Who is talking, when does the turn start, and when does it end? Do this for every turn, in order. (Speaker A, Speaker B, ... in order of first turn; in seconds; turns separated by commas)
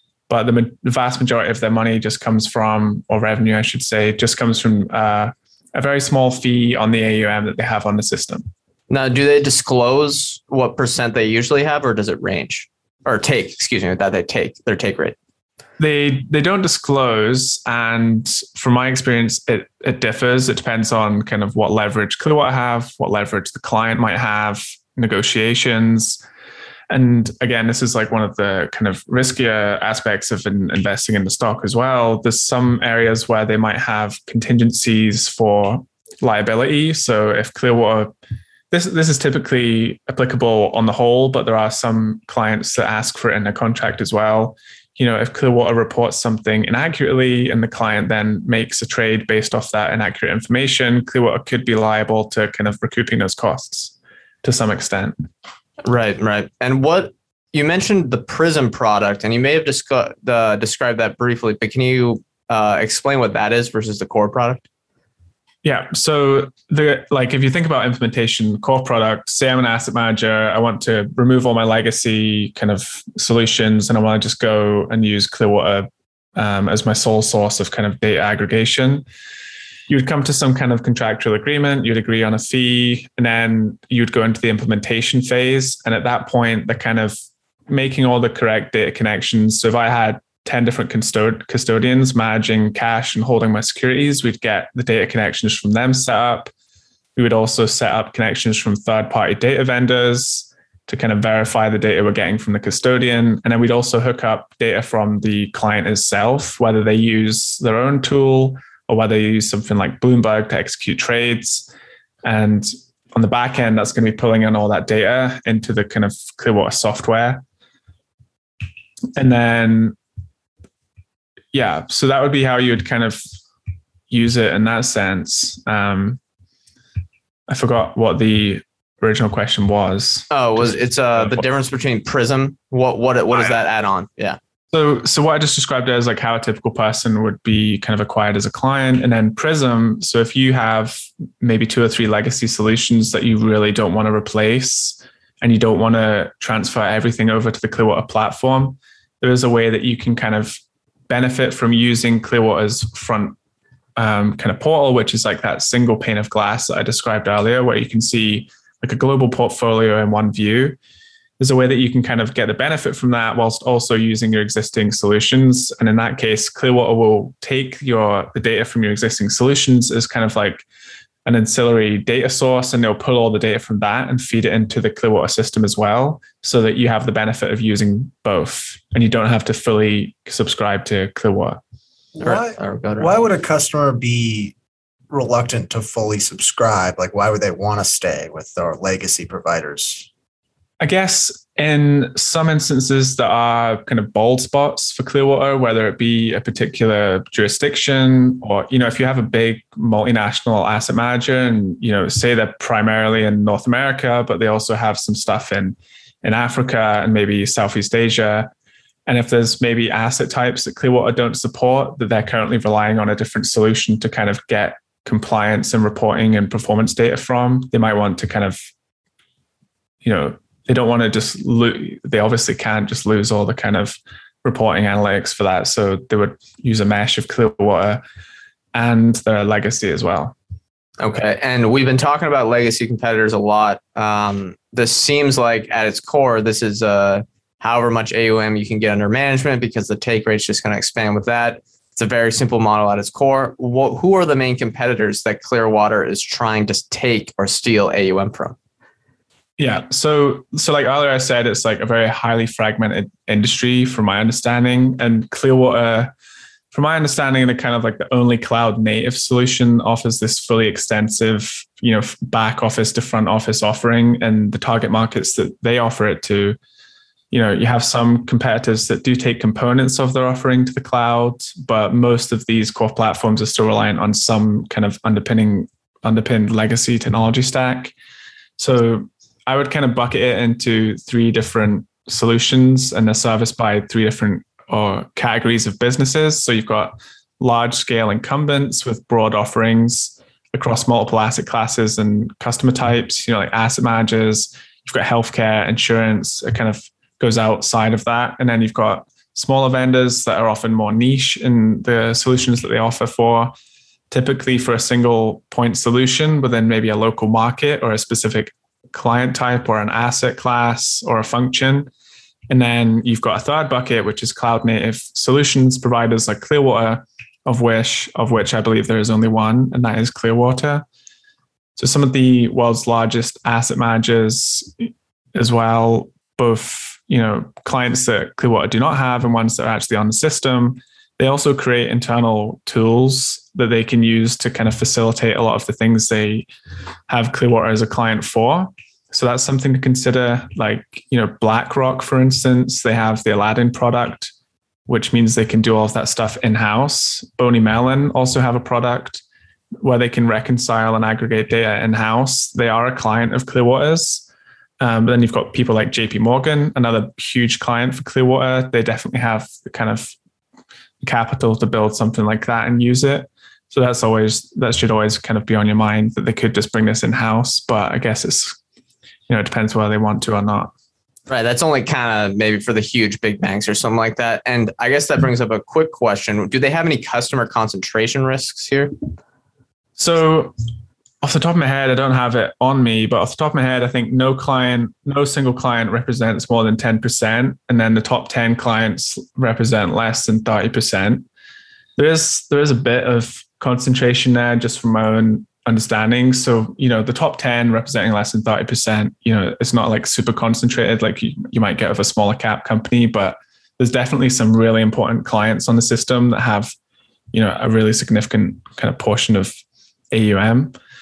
Speaker A: 0.3-8.5, Speaker B: 8.9-15.2, Speaker A: 15.8-26.2, Speaker A: 26.9-38.1, Speaker A: 38.7-55.1, Speaker B: 55.9-64.6, Speaker A: 65.6-79.0, Speaker A: 79.9-87.2, Speaker A: 87.7-96.5, Speaker A: 97.2-111.7, Speaker A: 112.2-117.4, Speaker A: 119.2-120.0, Speaker A: 121.5-123.2, Speaker A: 124.1-126.2, Speaker A: 127.5-131.4, Speaker B: 130.3-134.4, Speaker A: 134.7-150.6, Speaker A: 151.1-153.3, Speaker A: 154.0-160.8, Speaker A: 161.4-170.7, Speaker A: 171.3-181.6, Speaker C: 182.2-184.6, Speaker B: 182.2-183.1, Speaker C: 185.1-190.1, Speaker A: 190.8-208.5, Speaker A: 209.1-218.6, Speaker A: 220.0-228.0, Speaker A: 228.7-230.3, Speaker B: 231.0-248.6, Speaker A: 249.6-256.1, Speaker A: 256.7-266.6, Speaker A: 267.3-277.9, Speaker A: 278.6-303.5, Speaker A: 304.1-311.9, Speaker A: 312.5-320.9, Speaker A: 321.8-336.5, Speaker A: 337.1-344.3, Speaker A: 344.9-349.2, Speaker A: 349.8-354.2, Speaker A: 354.8-360.1, Speaker A: 361.0-368.6, Speaker A: 369.3-370.7, Speaker B: 371.3-379.0, Speaker A: 380.0-380.6, Speaker A: 381.2-391.3, Speaker A: 392.0-406.7, Speaker A: 407.3-409.6, Speaker A: 410.1-410.8